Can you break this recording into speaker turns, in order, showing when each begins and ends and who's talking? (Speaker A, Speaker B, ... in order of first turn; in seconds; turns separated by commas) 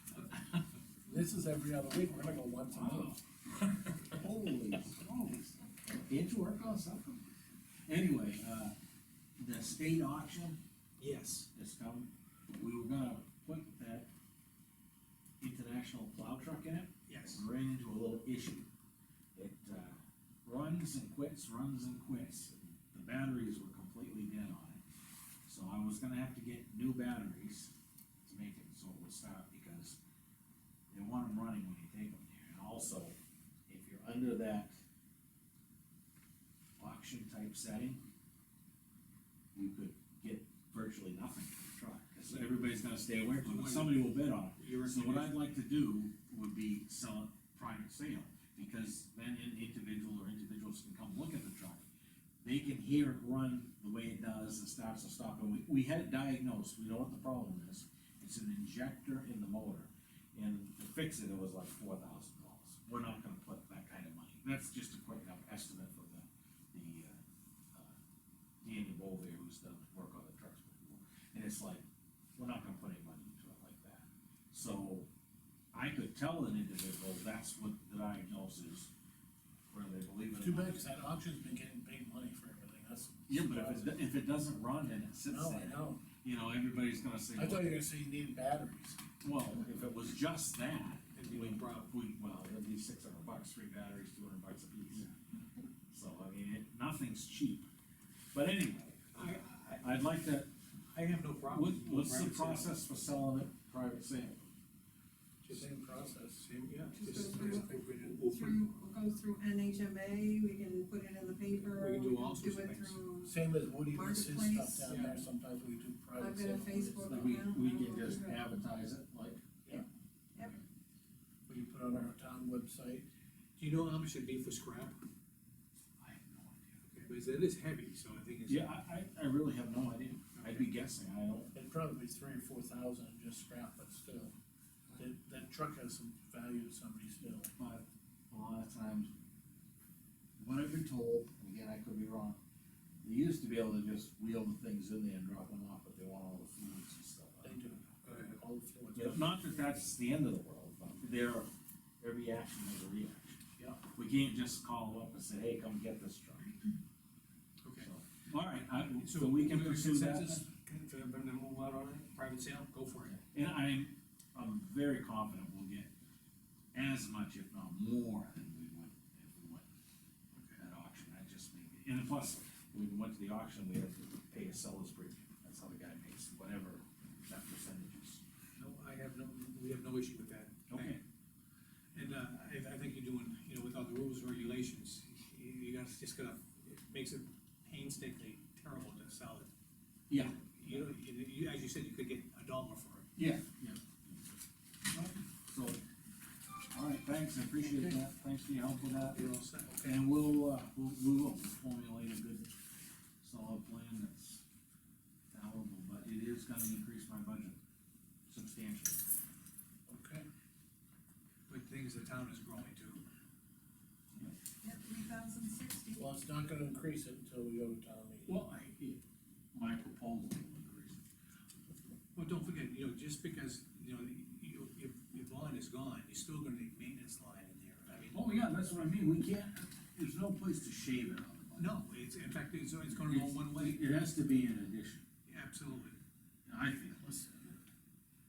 Speaker A: 1.1-3.2, Speaker B: 2.6-3.2, Speaker B: 3.9-7.3, Speaker B: 7.8-8.7, Speaker B: 9.4-10.6, Speaker C: 11.0-11.5, Speaker B: 11.5-14.1, Speaker B: 15.4-18.7, Speaker C: 17.1-17.4, Speaker B: 19.3-24.8, Speaker B: 25.4-30.0, Speaker B: 30.9-33.1, Speaker B: 33.7-34.8, Speaker B: 36.8-38.0, Speaker B: 39.5-51.9, Speaker C: 43.3-45.4, Speaker B: 52.4-67.2, Speaker B: 68.6-71.8, Speaker B: 72.3-75.1, Speaker B: 75.7-78.9, Speaker B: 79.7-80.8, Speaker A: 80.4-84.0, Speaker B: 83.3-87.9, Speaker A: 85.3-86.0, Speaker A: 87.3-89.0, Speaker B: 89.2-95.0, Speaker C: 91.1-91.9, Speaker B: 95.9-97.7, Speaker B: 98.3-100.5, Speaker C: 99.1-100.1, Speaker C: 100.9-102.8, Speaker B: 101.4-104.4, Speaker C: 105.4-105.7, Speaker A: 105.5-106.5, Speaker C: 106.4-108.6, Speaker D: 106.9-107.7, Speaker A: 107.1-108.2, Speaker D: 108.2-113.4, Speaker C: 111.6-113.0, Speaker A: 113.2-117.4, Speaker D: 113.9-114.9, Speaker C: 114.9-115.2, Speaker D: 116.2-118.6, Speaker B: 117.0-119.8, Speaker A: 121.5-123.0, Speaker C: 123.6-125.0, Speaker B: 126.0-126.8, Speaker C: 126.9-128.7, Speaker B: 128.5-131.5, Speaker C: 130.4-130.6, Speaker A: 131.5-134.3, Speaker A: 134.9-137.5, Speaker B: 137.6-139.1, Speaker B: 140.4-142.4, Speaker B: 143.0-147.9, Speaker A: 147.4-149.4, Speaker C: 148.1-148.3, Speaker B: 148.9-156.6, Speaker C: 157.6-157.9, Speaker B: 157.8-160.4, Speaker C: 158.5-160.6, Speaker A: 160.7-161.2, Speaker C: 161.2-163.2, Speaker B: 163.3-165.9, Speaker B: 166.7-169.7, Speaker B: 170.6-178.2, Speaker C: 178.6-181.0, Speaker B: 180.7-181.0, Speaker C: 181.9-189.5, Speaker B: 190.1-190.9, Speaker C: 190.3-193.1, Speaker B: 193.2-194.3, Speaker B: 195.0-195.8, Speaker B: 196.7-199.2, Speaker A: 199.1-200.0, Speaker B: 199.8-202.5, Speaker B: 203.2-204.4, Speaker B: 205.3-207.6, Speaker B: 208.3-209.1, Speaker A: 209.9-210.2, Speaker C: 211.5-213.0, Speaker D: 214.6-216.1, Speaker A: 215.9-218.4, Speaker B: 218.2-219.0, Speaker B: 219.5-221.0, Speaker C: 222.1-228.2, Speaker B: 228.1-231.8, Speaker C: 231.6-233.8, Speaker B: 232.9-235.0, Speaker C: 235.2-236.0, Speaker B: 236.4-237.0, Speaker A: 237.0-237.6